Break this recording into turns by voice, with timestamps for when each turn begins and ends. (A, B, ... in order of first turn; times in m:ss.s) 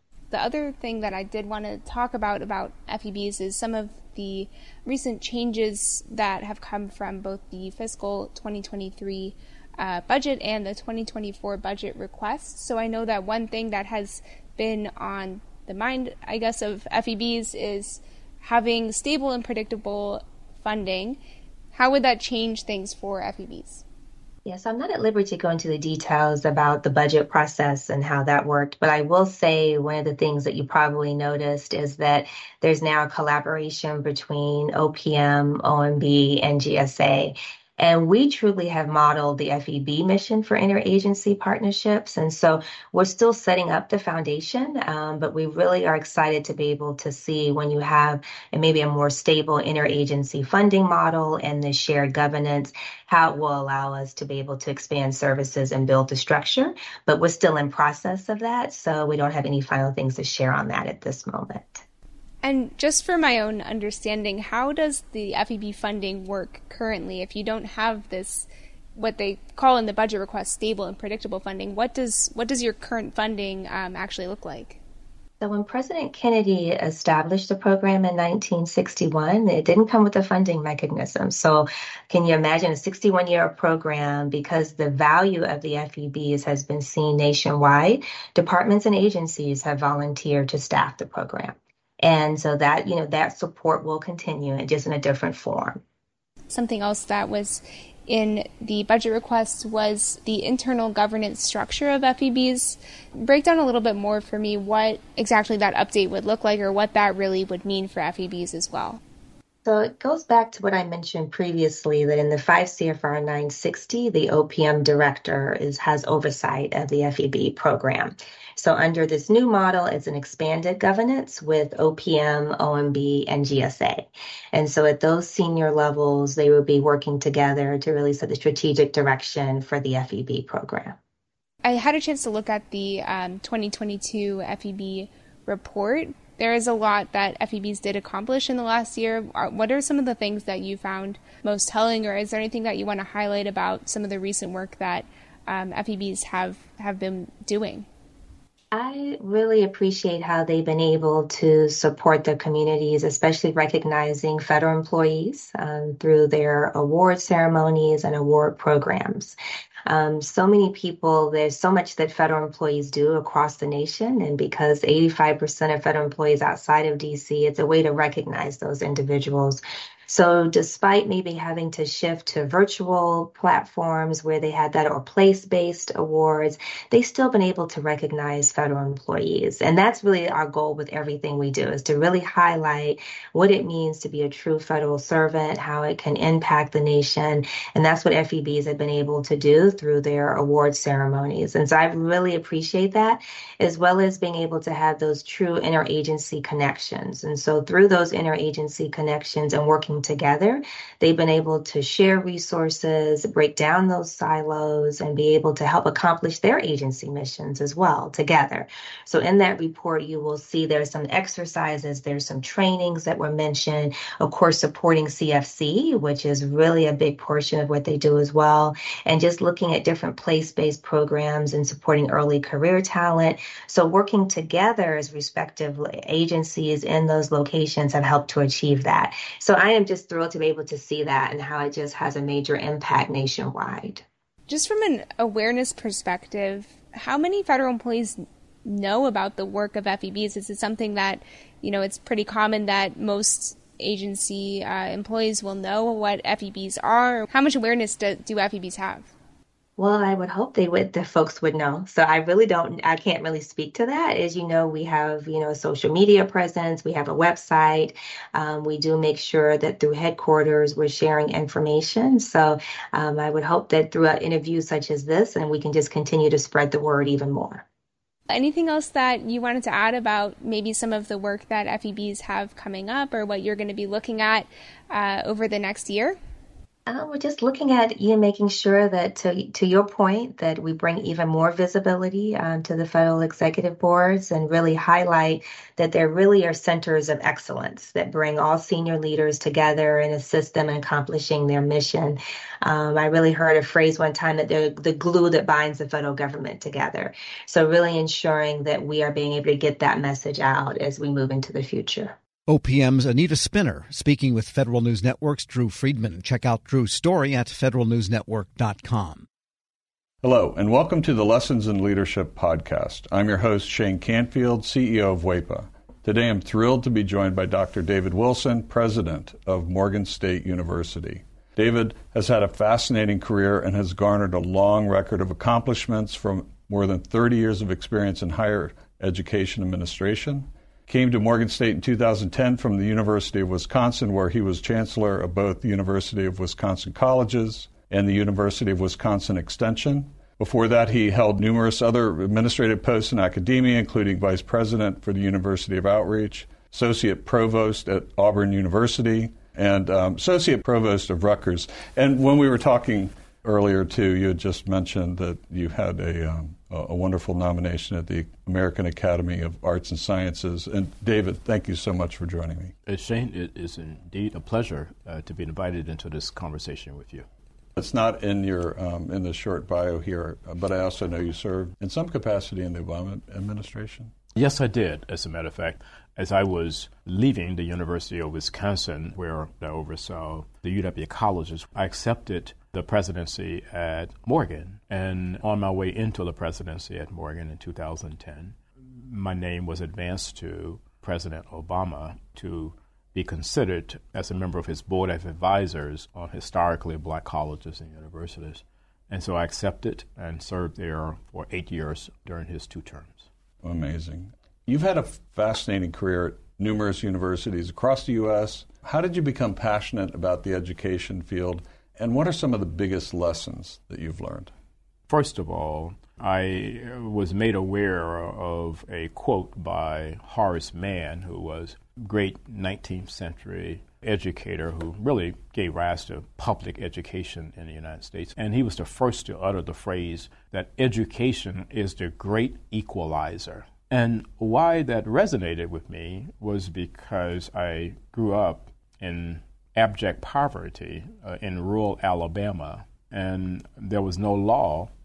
0:00.3-0:21.2 A
0:21.7-0:23.8 A
0:24.4-1:01.8 B
1:02.4-1:14.8 A
1:15.4-1:35.8 B
1:36.5-1:49.0 A
1:49.6-2:11.0 B
2:11.6-2:27.9 A
2:28.7-3:54.0 B
3:54.5-4:09.1 A
4:09.8-4:27.6 B
4:28.3-4:36.2 A
4:36.9-5:02.2 B
5:02.5-5:09.3 C
5:10.2-6:02.7 D
6:02.8-6:07.3 E
6:07.8-6:14.1 D
6:14.3-6:43.3 E
6:43.6-6:54.5 D
6:55.1-7:24.9 E